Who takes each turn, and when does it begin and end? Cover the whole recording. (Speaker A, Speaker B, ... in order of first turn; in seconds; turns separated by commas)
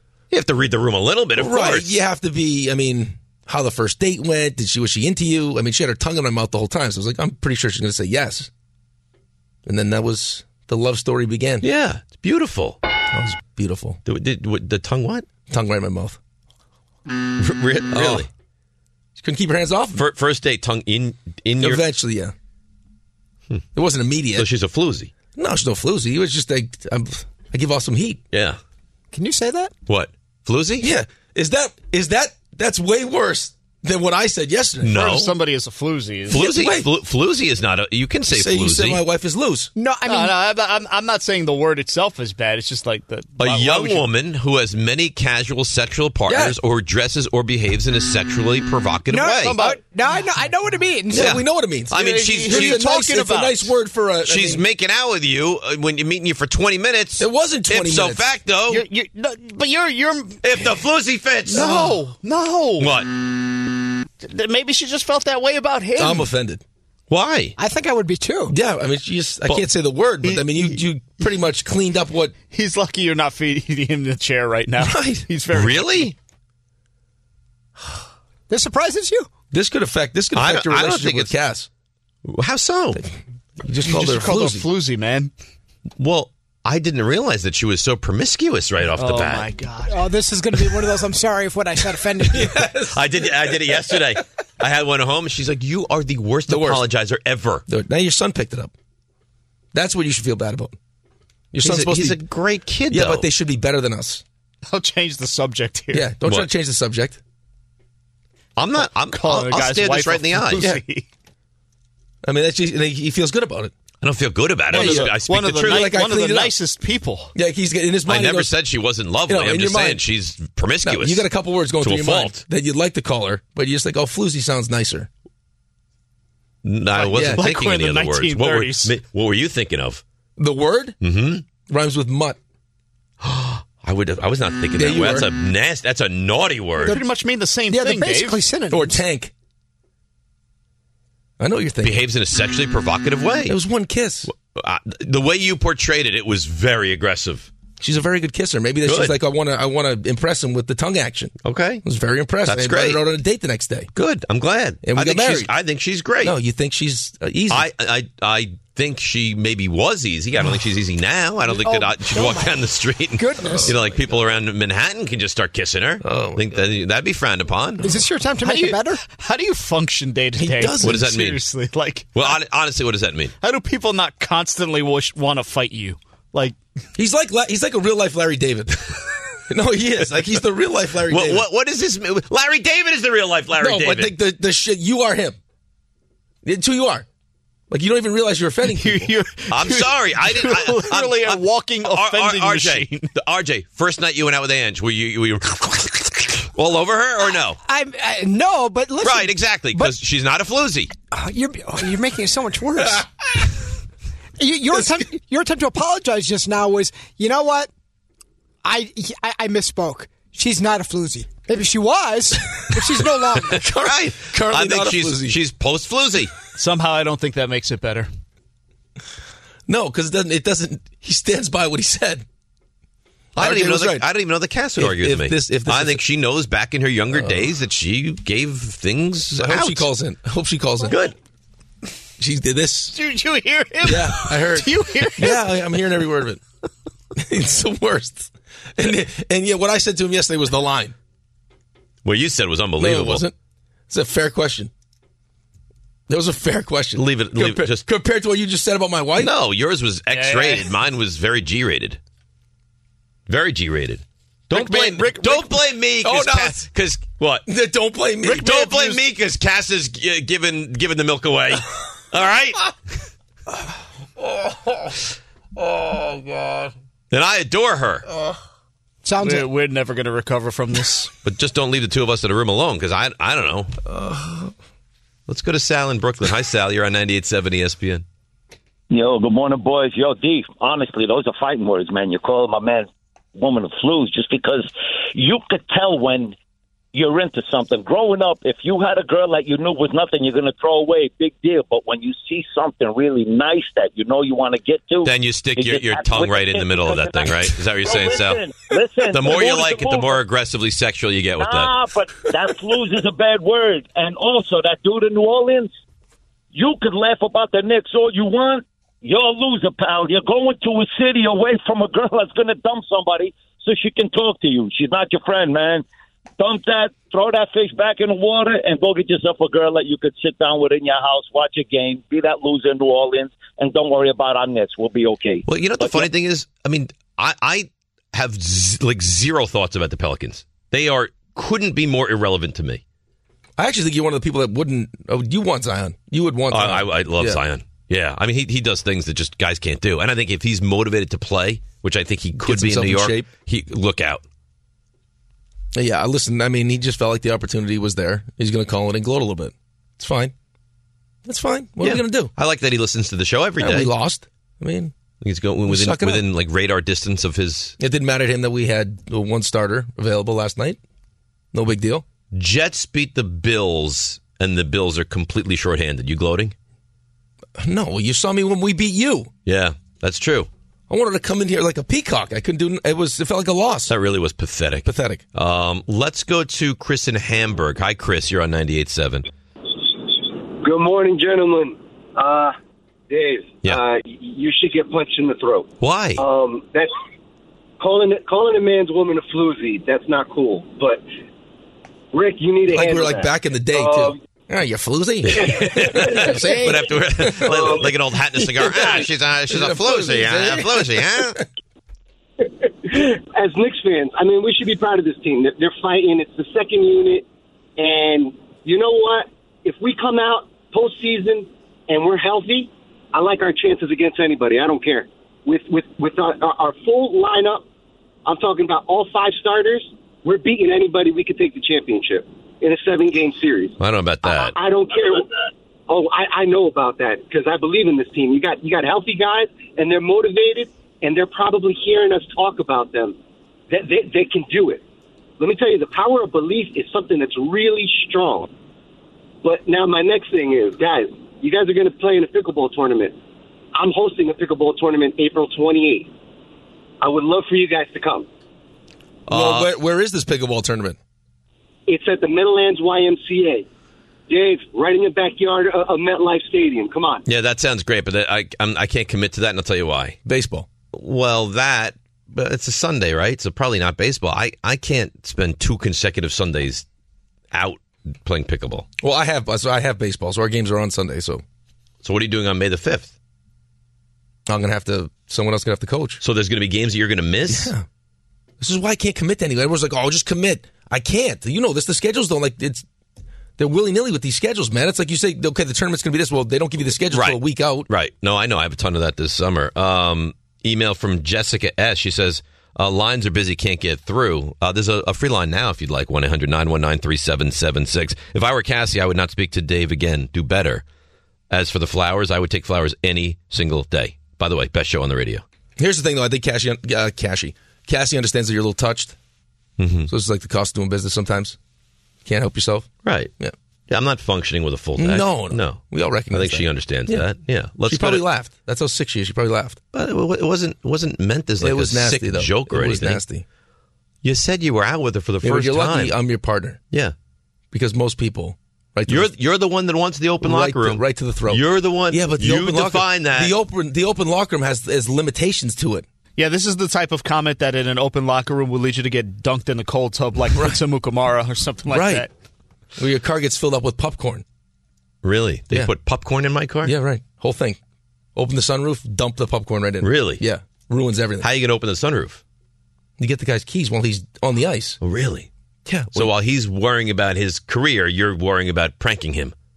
Speaker A: 0.3-2.0, Speaker B: 1.4-8.5, Speaker B: 9.7-11.7, Speaker A: 11.6-12.8, Speaker B: 13.1-14.0, Speaker A: 14.1-15.3, Speaker B: 15.5-16.2, Speaker A: 17.4-18.3, Speaker B: 17.9-18.3, Speaker B: 19.2-20.0, Speaker A: 19.9-21.8, Speaker B: 21.6-22.3, Speaker B: 23.7-24.5, Speaker A: 24.3-25.1, Speaker B: 25.3-28.2, Speaker A: 28.3-28.6, Speaker C: 29.1-29.7, Speaker A: 29.9-30.9, Speaker B: 30.8-35.1, Speaker A: 34.8-35.3, Speaker D: 35.0-36.4, Speaker B: 36.3-36.9, Speaker A: 36.3-39.0, Speaker B: 38.3-39.7, Speaker C: 39.8-40.4, Speaker D: 40.0-44.1, Speaker A: 43.4-49.6, Speaker B: 46.3-46.6, Speaker D: 49.1-49.8, Speaker C: 49.1-51.3, Speaker B: 51.1-54.6, Speaker A: 51.1-52.8, Speaker D: 52.0-53.7, Speaker A: 54.2-58.8, Speaker B: 57.2-58.4, Speaker D: 58.7-60.7, Speaker A: 60.4-62.0, Speaker D: 61.5-63.0, Speaker A: 62.8-63.1, Speaker D: 64.2-66.2, Speaker B: 66.0-66.6, Speaker A: 67.1-67.5, Speaker C: 67.6-68.6, Speaker B: 68.5-72.3, Speaker D: 70.2-70.8, Speaker D: 72.5-76.1, Speaker B: 74.8-75.2, Speaker A: 75.5-76.1, Speaker C: 78.5-79.3, Speaker B: 79.5-81.7, Speaker A: 80.3-81.3, Speaker A: 82.2-83.0, Speaker B: 82.9-84.7, Speaker D: 83.8-85.3, Speaker A: 86.0-89.5, Speaker D: 89.0-90.0, Speaker C: 89.9-92.5, Speaker B: 92.3-94.2, Speaker A: 92.4-97.6, Speaker B: 96.5-96.9, Speaker B: 97.7-98.7, Speaker B: 99.7-100.8, Speaker B: 101.5-102.2, Speaker A: 101.6-103.3, Speaker B: 102.9-104.2, Speaker D: 104.7-106.1, Speaker B: 105.9-107.2, Speaker A: 108.5-110.6, Speaker D: 108.7-111.0, Speaker B: 110.6-110.8, Speaker B: 112.2-113.7, Speaker A: 114.0-116.0, Speaker D: 114.7-117.3, Speaker B: 114.7-116.5, Speaker B: 117.3-118.5, Speaker A: 118.1-121.2, Speaker B: 119.3-120.0, Speaker B: 120.8-125.1, Speaker A: 121.8-122.4, Speaker A: 126.6-130.0, Speaker D: 126.9-128.9, Speaker B: 127.1-127.5, Speaker B: 130.4-131.0, Speaker A: 131.0-131.4, Speaker B: 131.7-132.4, Speaker A: 133.2-137.0, Speaker B: 134.7-135.3, Speaker D: 136.8-138.5, Speaker C: 137.7-139.0, Speaker B: 138.7-139.3, Speaker B: 141.4-142.0, Speaker A: 141.8-143.6, Speaker B: 143.4-144.3, Speaker A: 144.3-147.5, Speaker B: 147.8-153.9, Speaker A: 148.8-149.2, Speaker A: 151.4-151.8, Speaker A: 152.4-153.0, Speaker A: 153.9-156.3, Speaker B: 154.8-155.5, Speaker B: 156.2-157.7, Speaker A: 157.5-167.8, Speaker C: 161.5-162.5, Speaker C: 163.2-163.7, Speaker B: 163.5-163.8, Speaker B: 166.0-166.5, Speaker C: 167.8-169.0, Speaker D: 167.9-172.3, Speaker B: 170.4-170.8, Speaker A: 170.6-171.4, Speaker A: 172.1-173.3, Speaker D: 173.4-176.6, Speaker B: 176.9-181.5, Speaker A: 180.1-180.4, Speaker A: 181.1-184.1, Speaker B: 183.6-185.4, Speaker B: 186.4-187.1, Speaker B: 187.7-189.1, Speaker D: 188.7-193.1, Speaker A: 189.5-197.6, Speaker C: 197.6-199.9, Speaker A: 199.0-200.9, Speaker C: 201.1-203.4, Speaker C: 204.4-207.7, Speaker C: 208.6-213.6, Speaker A: 213.4-216.4, Speaker B: 214.3-215.4, Speaker D: 216.5-218.1, Speaker B: 219.7-222.2, Speaker B: 223.3-224.1, Speaker A: 223.3-229.9, Speaker B: 224.8-226.0, Speaker B: 227.1-227.5, Speaker B: 229.4-231.0, Speaker A: 230.8-231.1, Speaker B: 232.2-233.0, Speaker D: 232.9-235.4, Speaker B: 233.8-236.4, Speaker B: 237.1-240.9, Speaker A: 242.0-243.2, Speaker B: 242.8-243.3, Speaker B: 243.9-244.7, Speaker B: 246.1-249.3, Speaker A: 246.9-247.8, Speaker A: 249.2-252.0, Speaker D: 250.1-250.7, Speaker A: 253.3-257.5, Speaker B: 254.5-255.5, Speaker D: 254.5-255.4, Speaker B: 256.0-256.6, Speaker B: 257.5-259.0, Speaker A: 258.2-262.7, Speaker B: 265.8-266.6, Speaker A: 267.1-268.1, Speaker C: 269.0-269.5, Speaker D: 269.2-271.1, Speaker A: 271.2-273.7, Speaker B: 273.9-274.5, Speaker A: 275.3-278.0, Speaker E: 278.9-286.4, Speaker E: 286.9-300.2, Speaker A: 295.0-298.4, Speaker A: 299.1-301.7, Speaker E: 301.4-305.7, Speaker E: 306.5-315.8, Speaker E: 316.4-326.1, Speaker A: 325.4-332.8, Speaker B: 333.6-337.4, Speaker A: 336.5-344.2, Speaker B: 342.4-343.3, Speaker B: 345.7-350.3, Speaker B: 351.2-352.3, Speaker A: 351.8-353.9, Speaker B: 353.6-354.9, Speaker A: 355.2-357.8, Speaker B: 355.7-356.3, Speaker B: 357.8-360.8, Speaker B: 361.5-362.0, Speaker A: 362.3-366.5, Speaker B: 367.6-369.3, Speaker A: 369.4-370.5, Speaker B: 370.9-373.9, Speaker A: 373.9-379.3, Speaker B: 374.8-375.2, Speaker F: 380.6-382.5, Speaker F: 383.1-386.9, Speaker A: 385.8-386.2, Speaker F: 387.8-391.0, Speaker F: 392.1-394.2, Speaker B: 392.7-397.7, Speaker A: 395.3-401.4, Speaker F: 395.3-396.7, Speaker F: 397.2-397.9, Speaker B: 398.4-401.4, Speaker F: 402.9-407.2, Speaker F: 407.8-417.6, Speaker F: 418.2-425.3, Speaker A: 423.8-424.5, Speaker F: 425.9-433.2, Speaker F: 433.7-434.8, Speaker F: 435.4-438.5, Speaker F: 439.4-443.2, Speaker F: 443.7-446.1, Speaker F: 447.0-448.3, Speaker A: 449.3-449.7, Speaker B: 449.3-451.0, Speaker F: 451.9-453.6, Speaker F: 454.3-457.2, Speaker A: 457.2-460.2, Speaker B: 460.2-460.7, Speaker A: 460.9-466.8, Speaker A: 467.5-468.9, Speaker B: 469.0-471.4, Speaker A: 472.0-473.1, Speaker B: 474.4-476.2, Speaker A: 476.2-477.7, Speaker B: 477.5-477.8, Speaker B: 478.6-482.8, Speaker B: 483.6-487.9, Speaker A: 487.1-500.8, Speaker A: 501.5-505.4, Speaker B: 505.8-509.1, Speaker A: 509.8-510.1, Speaker B: 510.1-511.6, Speaker B: 512.2-513.5, Speaker A: 513.0-513.3, Speaker A: 513.9-518.2, Speaker B: 515.0-517.2, Speaker B: 517.9-519.8, Speaker A: 519.9-523.2, Speaker B: 521.6-523.4, Speaker A: 524.2-526.1, Speaker B: 525.4-526.8, Speaker B: 527.7-529.3, Speaker A: 529.1-533.5, Speaker B: 530.4-536.0, Speaker D: 536.4-542.3, Speaker B: 541.9-542.3, Speaker B: 543.0-544.4, Speaker A: 545.2-546.9, Speaker B: 546.8-547.8, Speaker B: 548.3-551.5, Speaker A: 550.0-550.4, Speaker A: 551.4-552.4, Speaker B: 553.2-555.0, Speaker A: 555.0-555.5, Speaker B: 555.9-556.3, Speaker A: 556.1-559.5